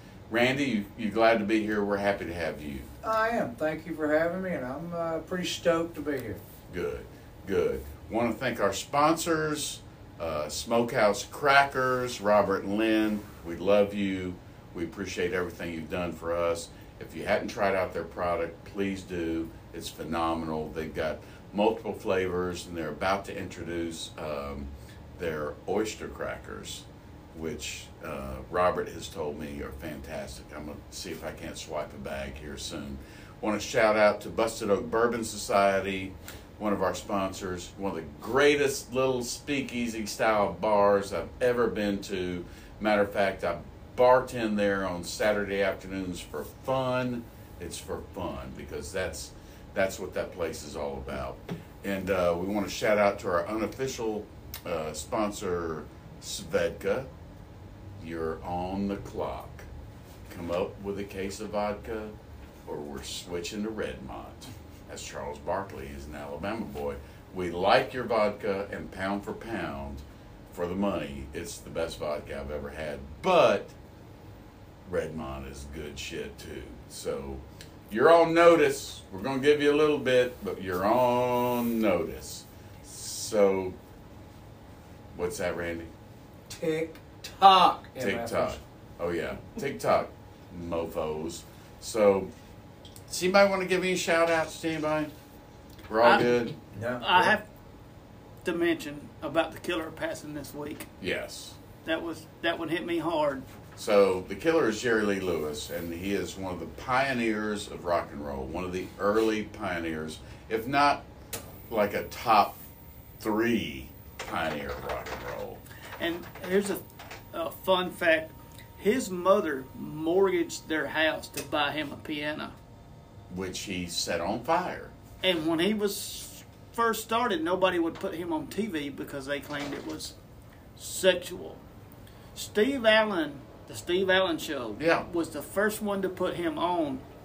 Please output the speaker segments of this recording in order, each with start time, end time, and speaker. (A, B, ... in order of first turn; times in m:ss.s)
0:00.3-0:02.9 A
0:03.0-0:06.4 B
0:06.7-0:57.1 A
0:58.0-0:59.7 A
1:00.3-1:02.1 A
1:02.6-1:13.7 A
1:14.8-1:23.7 A
1:25.1-1:25.9 A
1:26.5-1:28.6 B
1:28.0-1:32.3 A
1:33.1-1:35.1 A
1:35.9-1:36.5 A
1:36.0-1:36.3 C
1:36.7-1:37.3 B
1:37.0-1:37.4 C
1:38.4-1:40.9 C
1:41.0-1:41.6 A
1:41.8-1:43.4 C
1:43.8-1:51.0 A
1:51.7-1:52.6 A
1:53.2-1:55.6 A
1:56.0-2:02.5 C
2:03.3-2:04.9 A
2:05.2-2:10.1 C
2:10.8-2:11.6 C
2:12.3-2:17.0 C
2:14.8-2:15.0 A